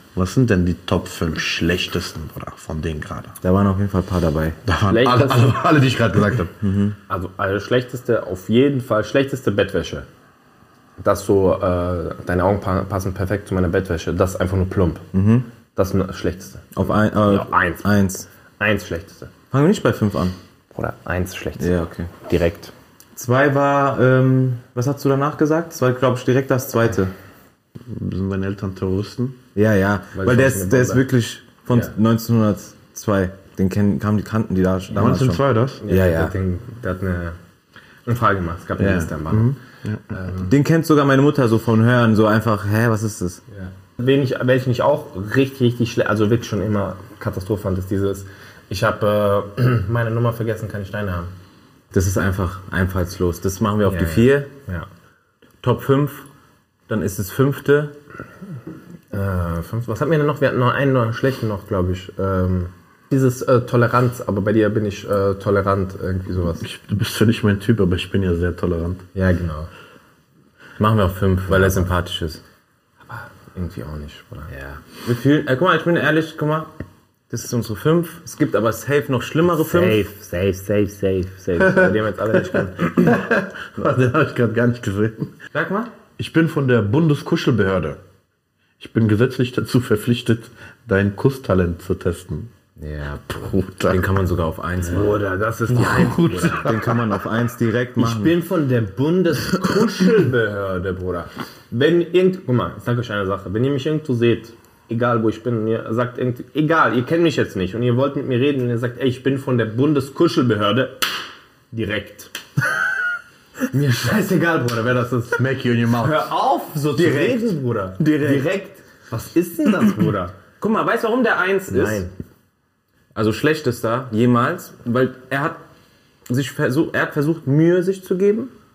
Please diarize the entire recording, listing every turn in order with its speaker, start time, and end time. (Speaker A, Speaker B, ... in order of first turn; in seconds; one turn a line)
Speaker A: 0.1-3.4
Speaker B: 3.4-4.6
Speaker A: 4.7-6.5
Speaker C: 4.8-5.6
Speaker B: 6.6-7.0
Speaker C: 7.1-10.1
Speaker C: 11.0-15.1
Speaker B: 15.1-15.5
Speaker C: 15.8-17.9
Speaker B: 16.8-18.3
Speaker C: 18.6-19.3
Speaker B: 19.5-20.4
Speaker C: 20.7-22.7
Speaker B: 21.6-22.1
Speaker B: 23.1-27.1
Speaker A: 27.9-29.4
Speaker B: 29.6-36.3
Speaker C: 30.1-31.1
Speaker A: 34.9-35.8
Speaker C: 35.8-37.4
Speaker C: 38.0-39.5
Speaker A: 38.8-40.1
Speaker C: 40.1-40.5
Speaker B: 40.4-43.4
Speaker C: 43.5-51.3
Speaker B: 51.9-54.5
Speaker C: 53.8-54.9
Speaker B: 55.6-56.2
Speaker B: 56.9-57.9
Speaker C: 59.1-66.6
Speaker A: 66.6-69.0
Speaker C: 69.1-69.7
Speaker B: 70.8-72.4
Speaker C: 71.5-71.9
Speaker C: 73.1-74.5
Speaker B: 74.5-76.7
Speaker B: 77.3-80.0
Speaker C: 79.6-83.1
Speaker A: 81.6-81.9
Speaker A: 82.8-85.3
Speaker B: 85.5-85.9
Speaker A: 86.2-88.0
Speaker A: 88.8-92.5
Speaker B: 92.8-95.2
Speaker A: 93.4-94.0
Speaker C: 94.8-96.8
Speaker A: 95.7-97.2
Speaker B: 96.0-98.3
Speaker C: 98.0-111.0
Speaker C: 111.7-112.3
Speaker C: 113.7-115.4
Speaker A: 115.3-116.3
Speaker C: 116.0-120.3
Speaker B: 117.0-118.5
Speaker B: 120.6-122.0
Speaker C: 121.7-122.1
Speaker B: 123.1-125.6
Speaker B: 126.3-128.5